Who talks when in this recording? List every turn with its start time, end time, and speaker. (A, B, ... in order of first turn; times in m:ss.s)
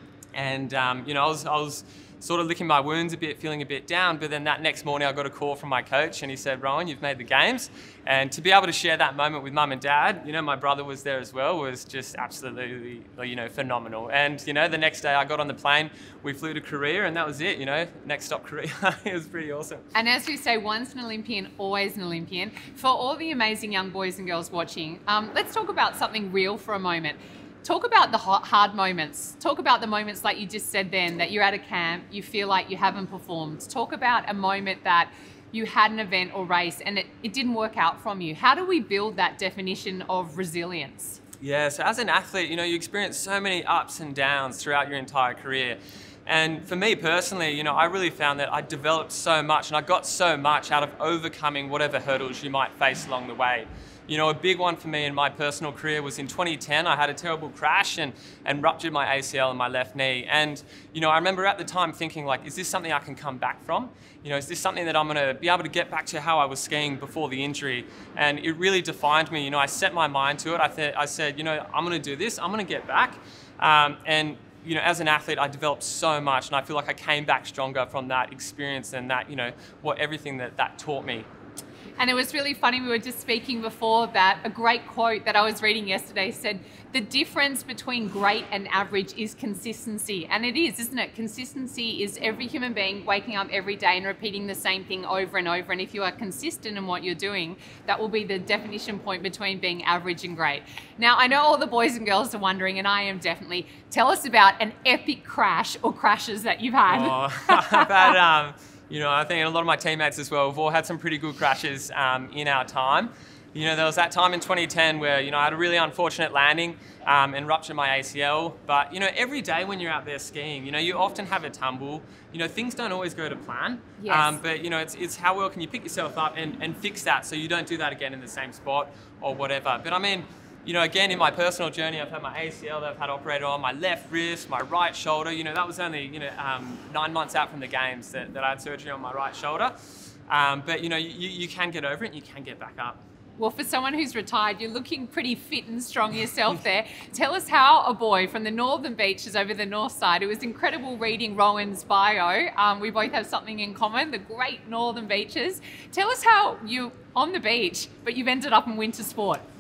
0:00.3-0:19.9 A
0:19.9-0:41.2 B
0:41.4-1:21.3 A
1:22.0-1:48.1 B
1:46.9-2:19.8 A
2:04.0-2:04.4 B
2:20.3-2:23.0 A
2:23.4-2:39.4 B